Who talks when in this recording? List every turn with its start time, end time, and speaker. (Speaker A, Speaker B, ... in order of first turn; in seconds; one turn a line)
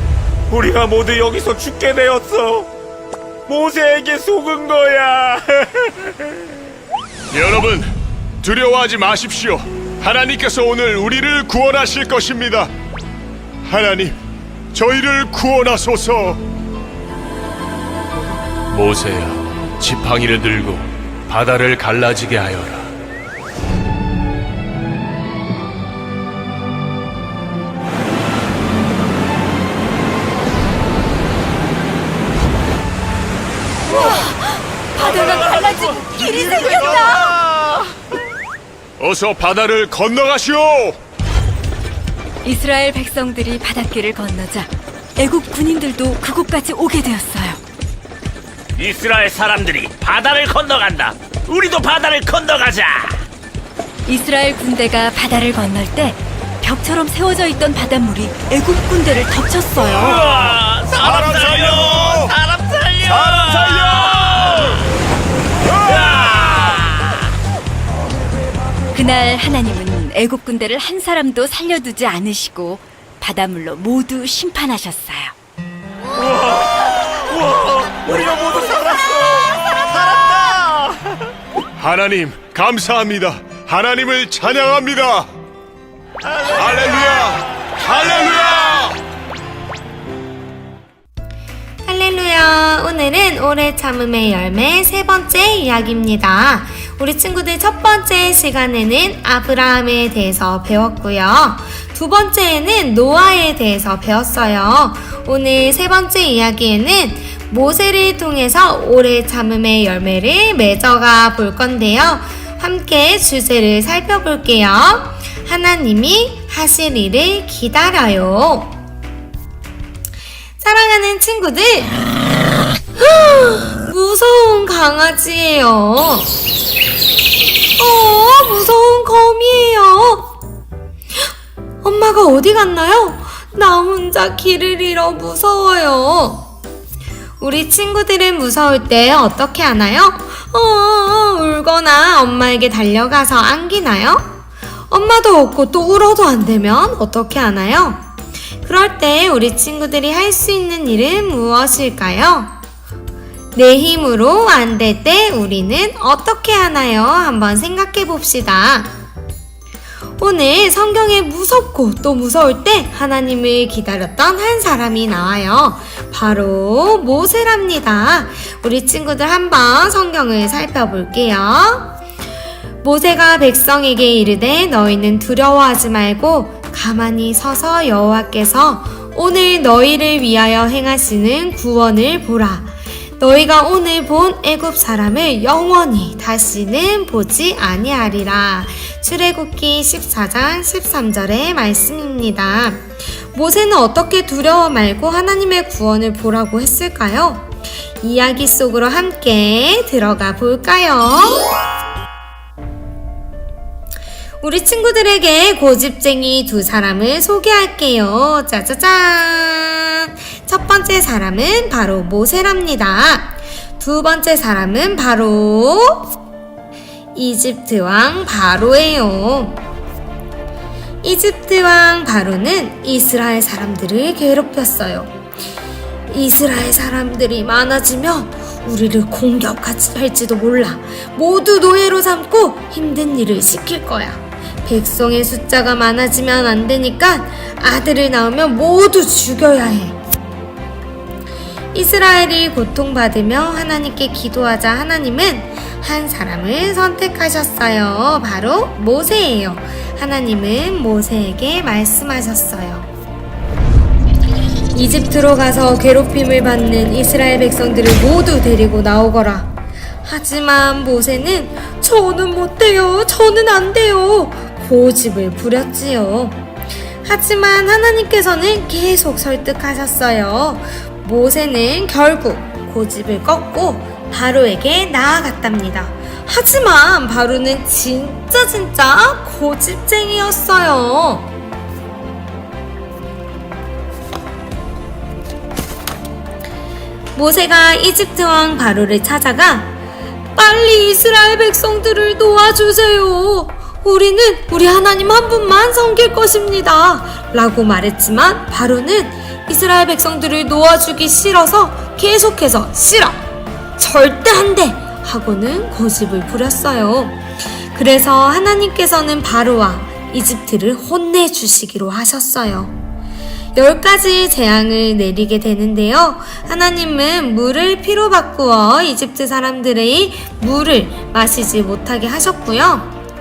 Speaker A: 0.5-2.7
Speaker A: 3.5-6.3
Speaker B: 7.3-12.7
Speaker B: 13.7-14.2
Speaker B: 14.7-16.4
Speaker B: 18.7-22.9
Speaker C: 34.0-34.4
Speaker C: 35.0-37.1
Speaker B: 35.0-35.4
Speaker B: 36.5-37.2
Speaker B: 39.0-41.0
Speaker C: 42.4-47.6
Speaker A: 48.8-53.2
Speaker C: 54.1-60.2
Speaker A: 59.8-64.8
Speaker B: 60.3-62.4
Speaker B: 63.1-64.7
Speaker A: 65.8-67.2
Speaker B: 65.8-66.5
Speaker C: 68.9-75.3
Speaker A: 76.2-81.0
Speaker B: 81.8-85.3
Speaker A: 86.2-87.2
Speaker B: 86.5-89.0
Speaker D: 91.9-118.8
Speaker D: 120.6-122.0
Speaker D: 123.0-126.3
Speaker D: 127.8-130.3
Speaker D: 131.8-136.5
Speaker D: 137.4-144.3
Speaker D: 144.9-148.0
Speaker D: 148.6-152.6
Speaker D: 153.6-158.9
Speaker D: 160.2-171.9
Speaker D: 172.8-201.5
Speaker D: 204.4-216.1
Speaker D: 217.2-219.6
Speaker D: 221.0-225.1
Speaker D: 226.1-240.0
Speaker D: 241.7-252.9
Speaker D: 254.8-259.5
Speaker D: 260.1-266.4
Speaker D: 267.1-281.3
Speaker D: 287.1-289.7
Speaker D: 290.4-303.2
Speaker D: 303.8-307.2
Speaker D: 307.7-312.8
Speaker D: 313.6-322.9